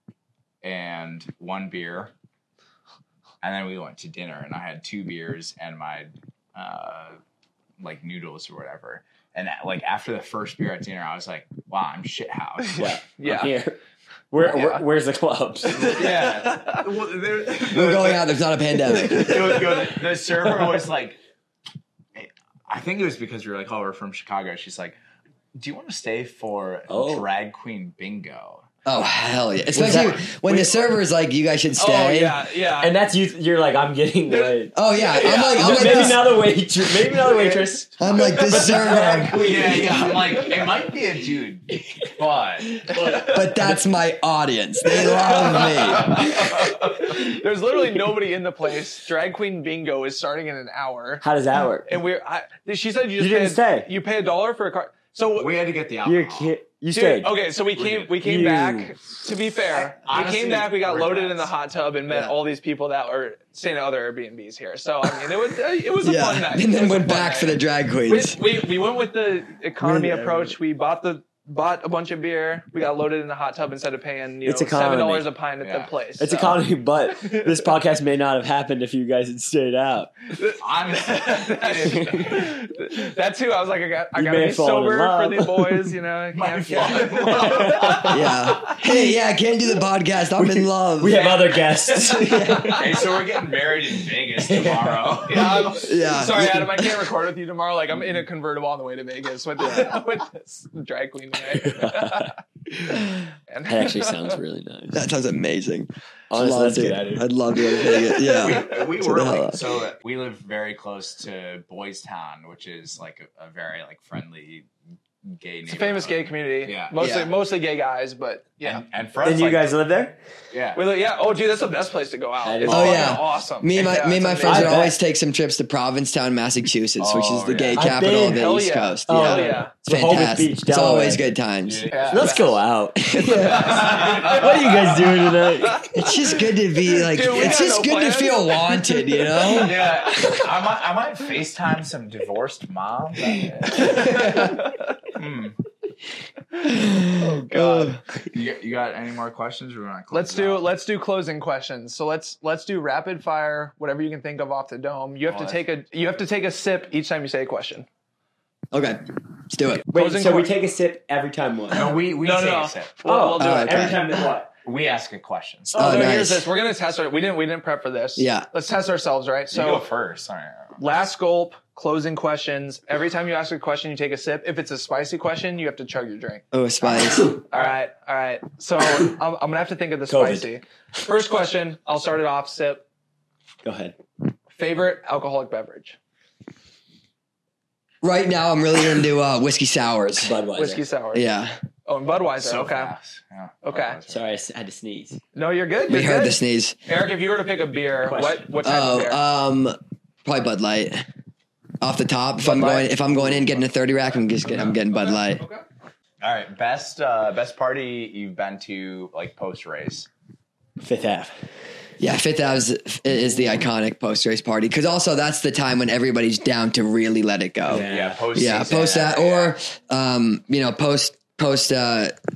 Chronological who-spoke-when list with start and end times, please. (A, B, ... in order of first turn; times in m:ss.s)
0:00.6-0:02.1 A
0:03.4-0:07.2 A
0:07.8-0:12.9 A
0:12.7-0:13.6 B
0:12.8-0:13.8 C
0:14.3-0:16.3 C
0:14.4-0:14.8 B
0:15.7-0:18.4 A
0:15.9-0:16.8 B
0:17.7-0:19.6 D
0:19.0-0:21.2 A
0:19.1-0:19.4 B
0:22.2-0:25.0 A
0:25.5-0:28.7 A
0:26.9-0:27.3 C
0:28.8-0:32.4 D
0:29.7-0:30.2 C
0:29.8-0:30.3 A
0:31.8-0:33.0 B
0:32.8-0:34.8 C
0:34.3-0:36.2 B
0:34.8-0:36.4 D
0:35.3-0:40.5 C
0:37.3-0:37.6 B
0:38.0-0:39.5 D
0:38.1-0:39.1 B
0:38.9-0:42.9 A
0:42.8-0:43.8 C
0:43.0-0:43.4 B
0:43.2-0:46.4 D
0:45.0-0:51.2 B
0:45.9-0:47.0 A
0:51.2-0:51.9 C
0:51.9-0:55.6 B
0:53.2-0:53.9 C
0:55.4-0:56.6 A
0:56.0-0:57.4 C
0:56.9-1:16.6 B
0:57.8-0:58.1 A
0:58.2-0:58.9 C
0:59.9-1:01.5 A
1:06.0-1:08.4 D
1:09.8-1:10.3 D
1:14.4-1:15.3 C
1:15.6-1:15.9 A
1:16.2-1:20.2 C
1:20.4-1:28.8 B
1:20.6-1:22.5 A
1:21.8-1:22.4 C
1:24.2-1:25.9 C
1:26.3-1:28.3 A
1:27.2-1:28.3 C
1:28.1-1:31.3 D
1:30.4-1:33.0 C
1:31.1-1:32.8 B
1:32.2-1:32.8 D
1:32.8-1:35.9 A
1:34.4-1:35.2 C
1:35.3-1:42.4 B
1:35.8-1:37.1 D
1:41.5-1:45.0 C
1:43.5-1:44.4 B
1:44.9-1:49.6 D
1:46.3-1:47.3 C
1:48.3-1:54.7 A
1:55.2-1:57.0 A
1:55.7-1:58.9 B
1:57.0-1:57.3 D
1:58.6-1:59.8 A
1:59.2-2:00.2 C
2:00.5-2:00.8 A
2:00.8-2:04.8 B
2:02.4-2:03.2 C
2:02.7-2:11.9 D
2:04.4-2:05.0 C
2:07.0-2:07.9 A
2:07.8-2:11.3 C
2:08.1-2:09.7 B
2:11.6-2:12.5 A
2:12.0-2:12.6 B
2:12.1-2:15.9 C
2:13.0-2:14.0 D
2:13.2-2:20.5 B
2:13.6-2:15.1 A
2:15.9-2:19.9 D
2:19.5-2:24.5 A
2:23.7-2:24.8 B
2:25.1-2:25.6 A
2:26.7-2:28.0 D
2:27.1-2:28.0 B
2:28.3-2:30.7 A
2:30.1-2:37.9 B
2:35.3-2:35.6 A
2:38.7-2:39.8 D
2:39.9-2:42.0 C
2:39.9-2:40.5 B
2:41.7-2:43.0 A
2:42.2-2:44.1 B
2:43.0-2:44.5 C
2:43.4-2:44.0 D
2:44.6-2:45.8 A
2:45.7-2:49.9 B
2:45.8-2:46.5 D
2:48.2-2:48.5 D
2:49.5-2:50.8 A
2:50.8-2:56.4 B
2:56.5-2:57.3 D
2:57.5-3:02.8 B
3:00.1-3:00.5 C
3:03.6-3:04.0 C
3:04.6-3:06.0 B
3:08.0-3:10.4 D
3:10.2-3:10.8 C
3:10.6-3:11.3 B
3:11.1-3:11.6 D
3:11.9-3:12.9 B
3:12.4-3:14.3 A
3:13.6-3:14.0 B
3:14.1-3:15.2 C
3:15.4-3:19.2 B
3:15.9-3:16.8 D
3:18.0-3:18.5 C
3:18.6-3:21.0 D
3:21.8-3:25.4 D
3:22.4-3:23.4 B
3:24.5-3:25.6 B
3:26.2-3:30.1 A
3:30.8-3:31.4 C
3:32.0-3:42.2 D
3:37.7-3:38.3 C
3:37.7-3:39.6 A